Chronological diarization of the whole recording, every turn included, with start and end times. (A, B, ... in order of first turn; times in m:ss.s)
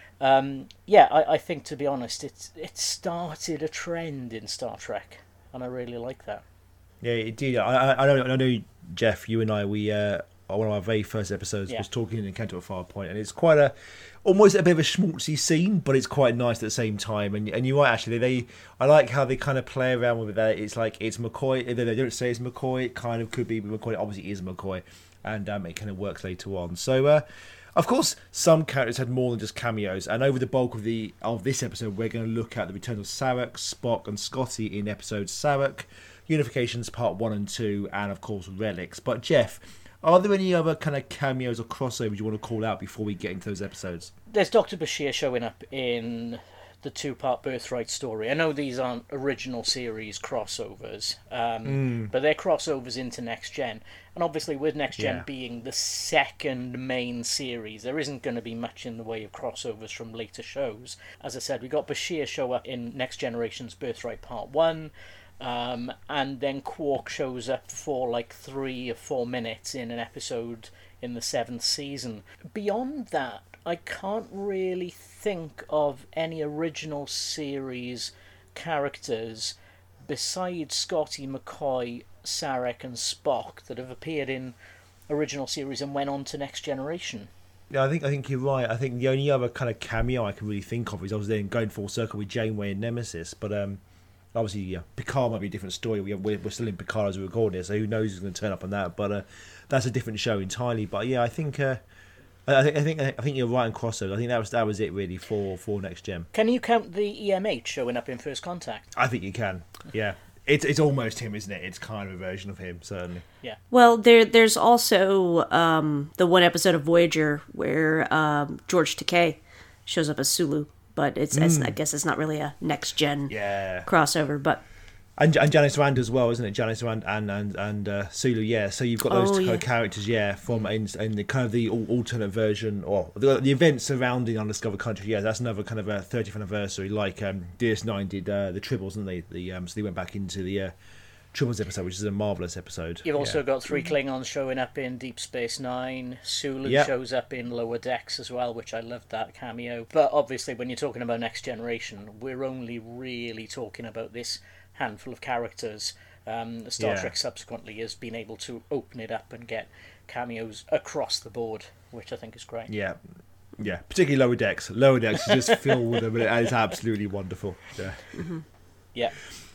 0:00.2-0:06.4 A
0:07.0-0:44.1 B
0:44.3-1:24.6 A
0:51.6-0:52.1 B
0:55.0-0:55.3 B
1:25.1-1:27.3 A
1:27.7-1:33.8 B
1:34.4-1:41.8 B
1:42.5-1:46.3 B
1:46.3-1:48.9 A
1:49.0-1:53.2 B
1:53.7-2:03.3 C
2:01.3-2:01.8 B
2:03.3-2:03.9 B
2:03.9-2:04.6 C
2:05.2-2:20.7 B
2:09.1-2:09.6 C
2:21.3-2:23.4 B
2:23.0-2:42.7 A
2:26.6-2:26.9 B
2:36.8-2:37.1 B
2:42.7-2:43.0 B
2:43.6-2:48.0 B
2:45.3-2:46.0 A
2:48.2-2:48.4 C